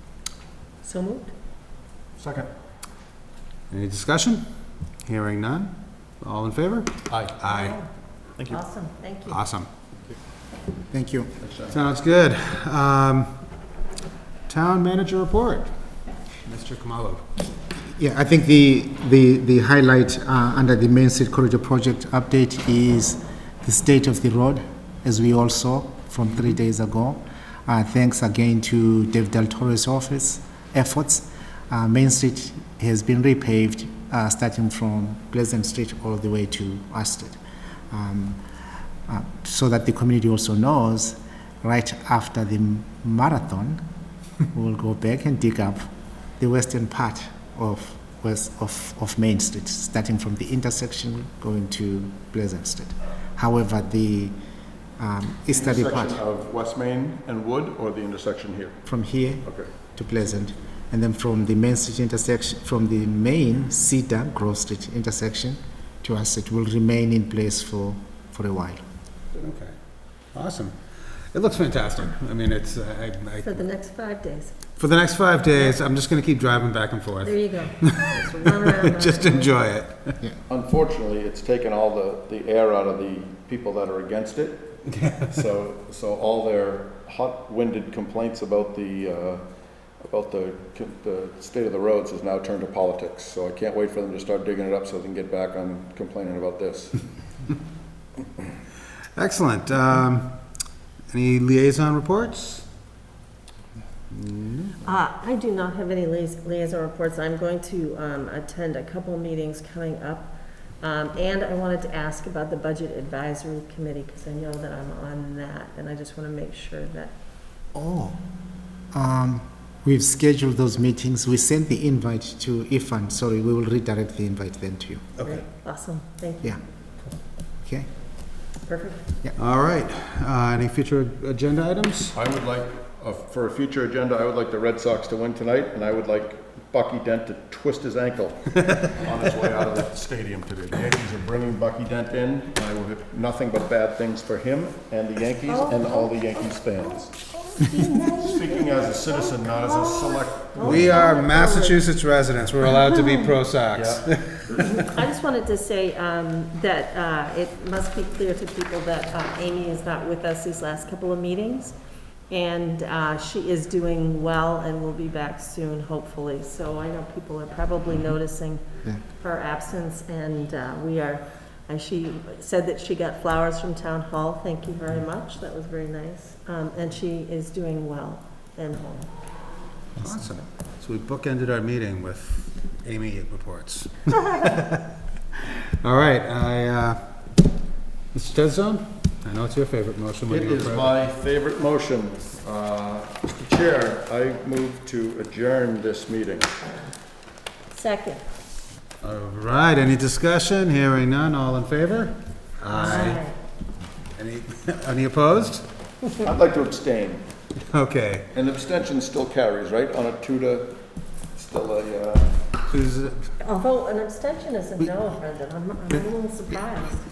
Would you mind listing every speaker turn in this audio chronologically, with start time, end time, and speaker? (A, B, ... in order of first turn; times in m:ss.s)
0:00.8-0:01.3 A
0:02.2-0:02.5 B
0:03.7-0:04.4 C
0:05.0-0:07.8 C
0:07.1-0:07.4 B
0:07.4-0:07.8 A
0:08.5-0:09.4 A
0:09.3-0:09.7 C
0:10.9-0:11.3 D
0:11.4-0:11.7 B
0:11.7-0:13.3 C
0:14.5-0:15.7 C
0:16.4-0:17.2 C
0:17.9-0:37.4 D
0:37.9-0:38.4 D
0:39.1-0:43.8 D
0:44.5-0:54.3 D
0:55.0-0:56.2 D
0:55.5-0:58.8 B
0:58.8-1:08.8 D
0:59.4-0:59.7 B
1:09.3-1:09.8 C
1:10.3-1:13.6 C
1:13.4-1:14.5 A
1:14.8-1:20.2 C
1:17.2-1:19.5 A
1:20.5-1:29.4 B
1:24.9-1:25.2 C
1:30.0-1:37.0 B
1:39.2-1:40.4 C
1:41.1-1:42.7 C
1:44.1-1:44.8 C
1:44.8-1:57.1 A
1:57.7-1:58.2 D
1:58.9-2:05.1 D
2:05.2-2:05.4 C
2:05.2-2:06.6 A
2:07.6-2:07.9 D
2:08.7-2:09.0 A
2:09.4-2:12.2 C
2:12.1-2:27.1 B
2:25.5-2:31.8 A
2:28.1-2:31.0 B
2:30.6-2:34.6 C
2:32.8-2:33.3 A
2:33.7-2:34.5 B
2:34.6-2:41.7 A
2:42.3-2:59.1 A
3:00.0-3:04.8 C
3:05.4-3:07.0 C
3:08.1-3:10.9 C
3:10.3-3:16.6 B
3:17.7-3:18.2 A
3:19.0-3:23.2 C
3:22.7-3:23.3 A
3:24.2-3:25.6 C
3:26.2-3:27.2 B
3:27.7-3:28.3 C
3:28.3-3:30.8 B
3:31.3-3:32.4 B
3:32.7-3:33.3 C
3:33.4-3:37.0 A